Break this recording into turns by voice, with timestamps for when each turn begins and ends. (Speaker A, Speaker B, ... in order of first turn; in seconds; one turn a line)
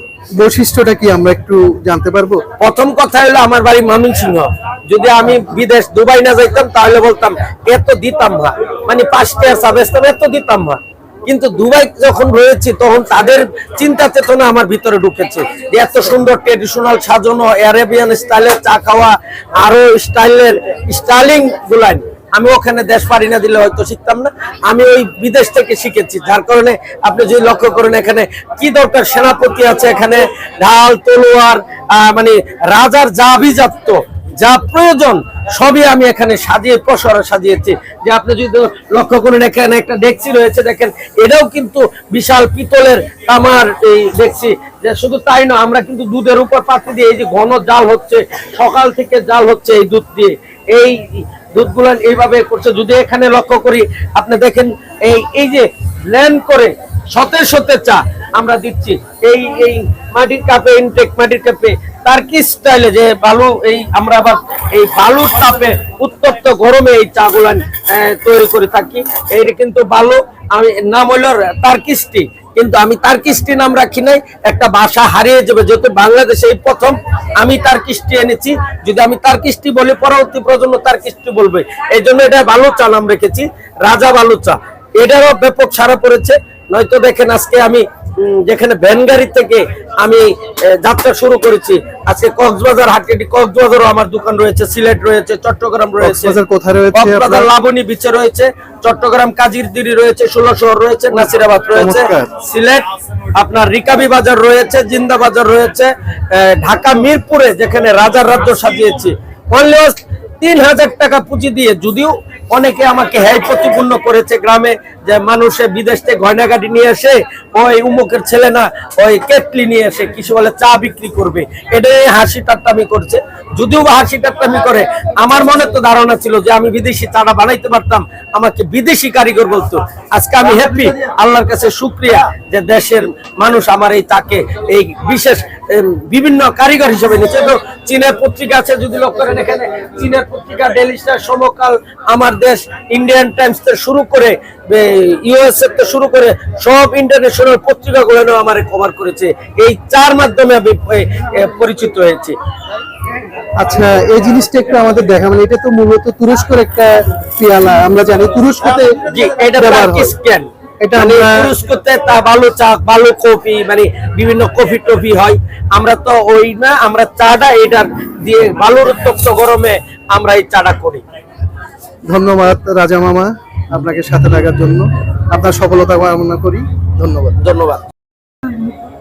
Speaker A: 0.4-2.4
Speaker B: 2.6-96.4
Speaker A: 96.0-97.5
Speaker B: 96.9-152.3
Speaker A: 101.2-102.3
Speaker A: 153.6-159.0
Speaker B: 159.1-171.0
Speaker A: 159.6-160.1
Speaker A: 160.8-161.5
Speaker A: 172.1-177.4
Speaker B: 177.4-177.8